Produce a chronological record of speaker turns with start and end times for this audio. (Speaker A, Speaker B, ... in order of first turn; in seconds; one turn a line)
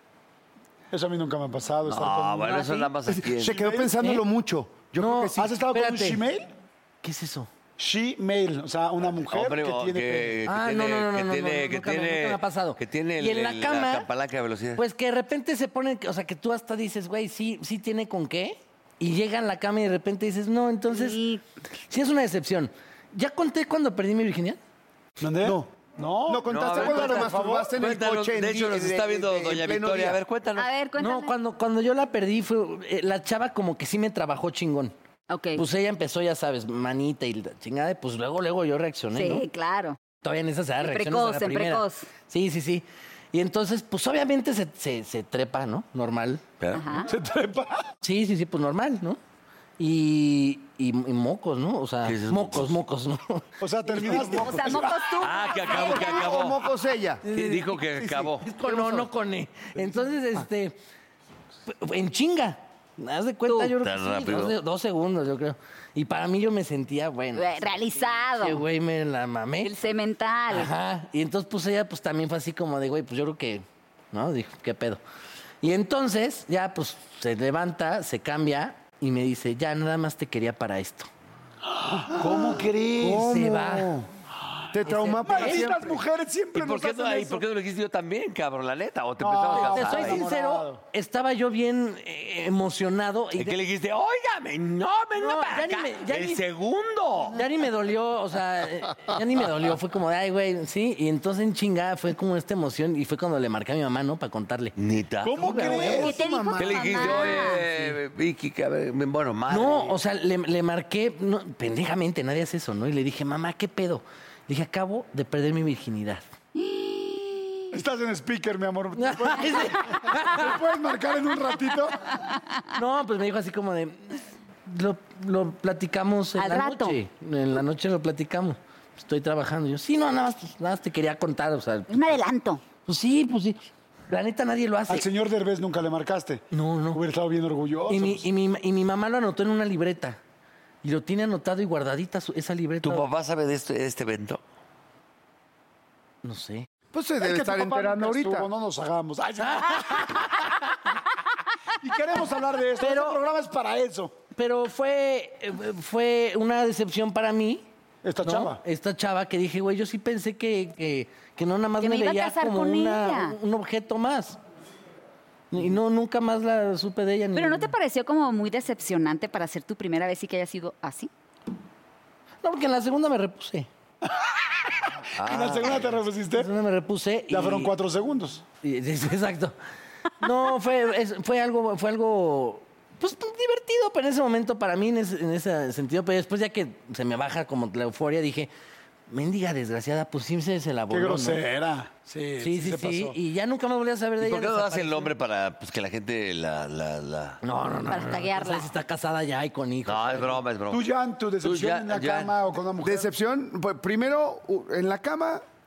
Speaker A: 0.9-2.9
Speaker B: 1.9-3.9
Speaker C: 3.1-5.5
Speaker D: 5.0-6.2
Speaker A: 5.3-6.5
Speaker D: 7.0-7.5
Speaker A: 7.8-10.4
Speaker B: 9.2-14.8
Speaker D: 10.4-14.1
Speaker D: 14.8-21.2
Speaker E: 20.9-21.4
Speaker D: 21.9-24.6
Speaker A: 25.2-27.7
Speaker C: 25.4-25.8
Speaker C: 26.3-30.2
Speaker B: 26.5-30.7
Speaker E: 30.6-31.4
Speaker D: 31.0-34.9
Speaker E: 35.3-35.6
Speaker D: 35.6-39.4
Speaker E: 39.1-40.0
Speaker D: 40.2-46.4
Speaker E: 40.8-42.1
Speaker B: 46.6-46.8
Speaker E: 46.7-47.1
Speaker A: 47.1-47.9
Speaker D: 48.0-49.2
Speaker D: 49.8-54.4
Speaker B: 52.0-52.8
Speaker A: 53.6-55.2
Speaker E: 54.0-56.3
Speaker B: 55.1-56.6
Speaker C: 55.7-57.2
Speaker D: 57.3-60.8
Speaker B: 57.3-58.5
Speaker A: 58.7-59.1
Speaker A: 59.8-60.1
Speaker D: 61.7-67.7
Speaker E: 63.5-63.7
Speaker B: 63.8-64.6
Speaker E: 67.3-68.6
Speaker D: 68.4-69.7
Speaker E: 69.6-70.7
Speaker D: 70.5-75.0
Speaker D: 75.6-81.1
Speaker A: 81.7-83.3
Speaker C: 82.2-84.1
Speaker D: 83.2-83.9
Speaker C: 84.7-86.0
Speaker D: 84.8-85.6
Speaker A: 84.9-87.5
Speaker B: 86.5-90.2
Speaker A: 89.2-90.8
Speaker D: 89.5-93.6
Speaker B: 93.4-97.4
Speaker D: 95.2-96.4
Speaker D: 97.3-104.8
Speaker B: 104.8-106.0
Speaker A: 105.2-106.2
Speaker D: 105.3-105.8
Speaker C: 105.6-107.4
Speaker E: 105.8-107.6
Speaker B: 106.6-110.0
Speaker D: 107.7-108.0
Speaker D: 109.5-116.2
Speaker E: 116.5-117.7
Speaker A: 117.7-122.1
Speaker D: 119.0-120.5
Speaker D: 122.7-132.0
Speaker E: 126.4-127.0
Speaker E: 131.9-132.6
Speaker D: 132.9-135.1
Speaker A: 134.9-138.2
Speaker D: 136.5-137.0
Speaker D: 137.9-140.2
Speaker D: 140.8-143.1
Speaker B: 142.8-144.4
Speaker D: 146.2-146.7
Speaker C: 146.9-148.5
Speaker A: 147.2-150.5
Speaker D: 149.4-150.8
Speaker A: 151.8-154.2
Speaker D: 152.8-153.2
Speaker D: 154.4-157.7
Speaker A: 158.0-158.6
Speaker D: 158.2-164.4
Speaker E: 161.8-163.4
Speaker D: 165.5-167.7
Speaker E: 167.3-171.1
Speaker D: 172.4-173.7
Speaker A: 174.9-176.5
Speaker B: 175.2-176.0
Speaker D: 176.3-177.7
Speaker A: 177.3-178.4
Speaker D: 178.6-179.6
Speaker D: 180.2-188.5
Speaker D: 189.1-191.4
Speaker A: 190.9-193.2
Speaker D: 192.4-195.1
Speaker B: 194.2-197.4
Speaker D: 197.4-200.4
Speaker E: 197.9-198.7
Speaker B: 199.8-200.8
Speaker A: 200.7-203.1
Speaker B: 201.4-202.3
Speaker C: 202.8-205.4